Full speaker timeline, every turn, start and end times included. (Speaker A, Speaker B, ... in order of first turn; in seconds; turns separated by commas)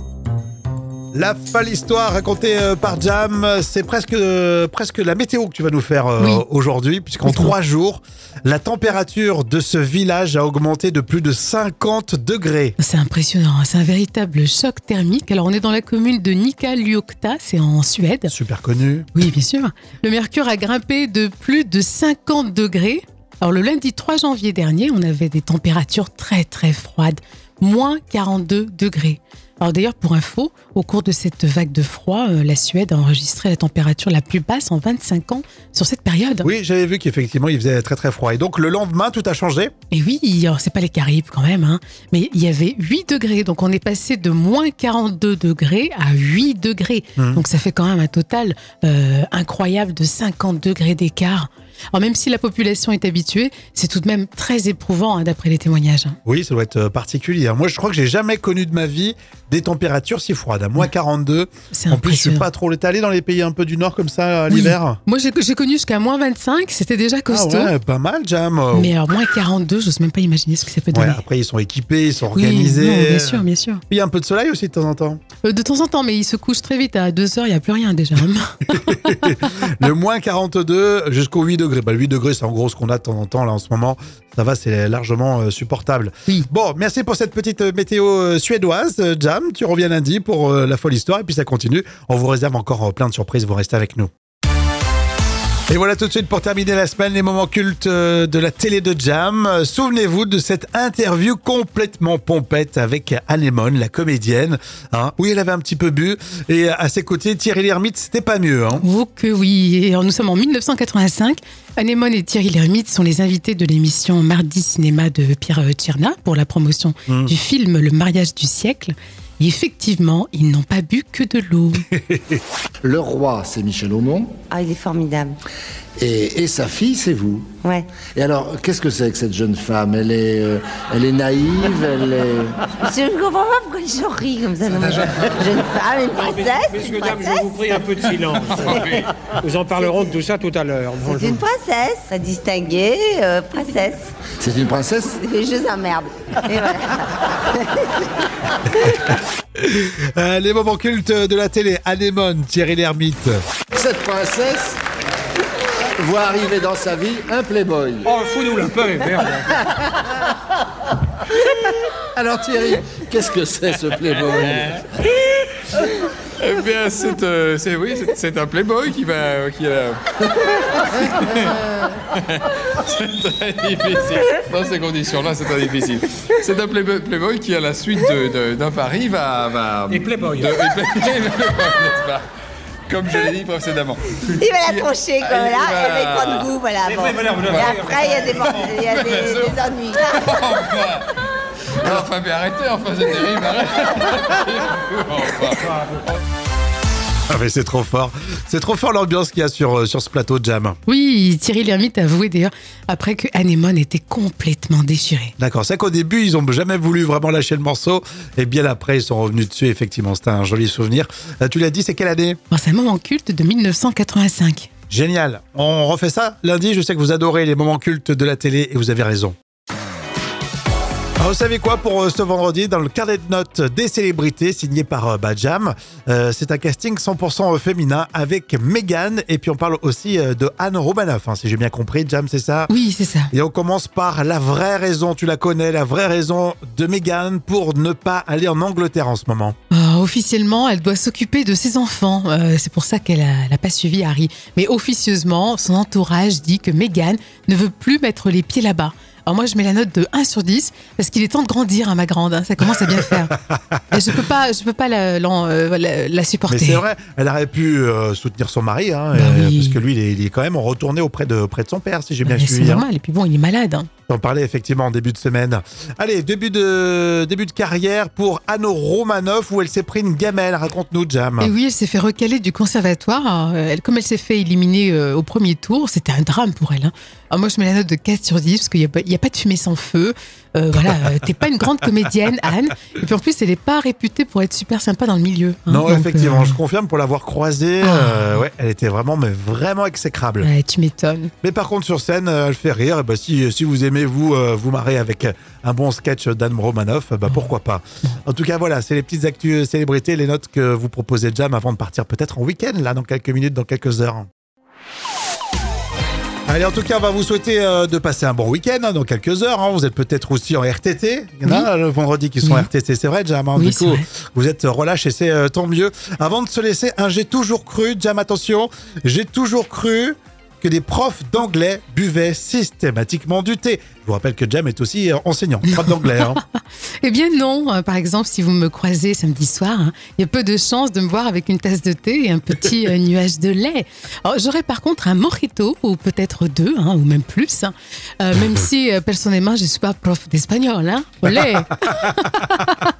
Speaker A: 1.1-12.8, Speaker B: 6.2-6.4, Speaker B: 7.2-7.5, Speaker B: 12.8-18.3, Speaker A: 18.3-19.1, Speaker B: 19.1-36.5, Speaker A: 36.4-39.7, Speaker B: 39.9-56.2, Speaker A: 47.2-47.4, Speaker A: 56.2-65.0, Speaker B: 61.7-62.5, Speaker B: 64.5-67.7, Speaker A: 67.3-68.9, Speaker B: 68.7-71.2, Speaker A: 70.9-75.2, Speaker B: 72.3-73.8, Speaker B: 75.4-78.7, Speaker A: 78.7-94.1, Speaker A: 95.7-108.8, Speaker B: 108.8-121.8, Speaker A: 117.1-117.3, Speaker A: 121.9-122.4, Speaker C: 122.8-124.4, Speaker D: 124.5-125.4, Speaker C: 126.0-127.5, Speaker D: 127.6-127.9, Speaker C: 128.1-132.6, Speaker D: 132.8-137.8, Speaker E: 136.2-141.4, Speaker F: 138.5-139.1, Speaker D: 138.6-139.0, Speaker D: 139.8-140.1, Speaker D: 141.0-144.1, Speaker C: 144.4-145.2, Speaker D: 145.1-148.0, Speaker A: 148.8-153.4, Speaker C: 153.7-154.8, Speaker C: 156.0-158.1, Speaker E: 158.0-159.5, Speaker C: 162.2-164.8, Speaker F: 166.4-170.0, Speaker F: 170.7-182.2, Speaker E: 179.9-180.5, Speaker F: 182.9-186.5, Speaker D: 184.4-190.2, Speaker E: 186.8-188.4, Speaker F: 188.8-189.6, Speaker F: 190.2-191.1, Speaker F: 191.8-195.7, Speaker A: 197.3-200.8, Speaker B: 200.9-205.3, Speaker A: 205.4-212.4, Speaker B: 212.5-214.7, Speaker A: 214.9-219.3, Speaker A: 221.2-232.7, Speaker B: 232.7-233.3, Speaker A: 233.3-239.6, Speaker B: 239.7-253.3, Speaker B: 253.9-256.8, Speaker A: 256.5-262.9, Speaker B: 259.1-259.8, Speaker B: 262.2-263.9, Speaker A: 264.1-271.5, Speaker B: 271.4-286.6, Speaker A: 285.7-290.5, Speaker B: 287.8-288.4, Speaker B: 290.4-291.3, Speaker A: 291.4-304.3, Speaker A: 306.5-326.4, Speaker B: 312.4-312.7, Speaker B: 313.6-314.0, Speaker B: 325.8-326.2, Speaker B: 327.0-342.6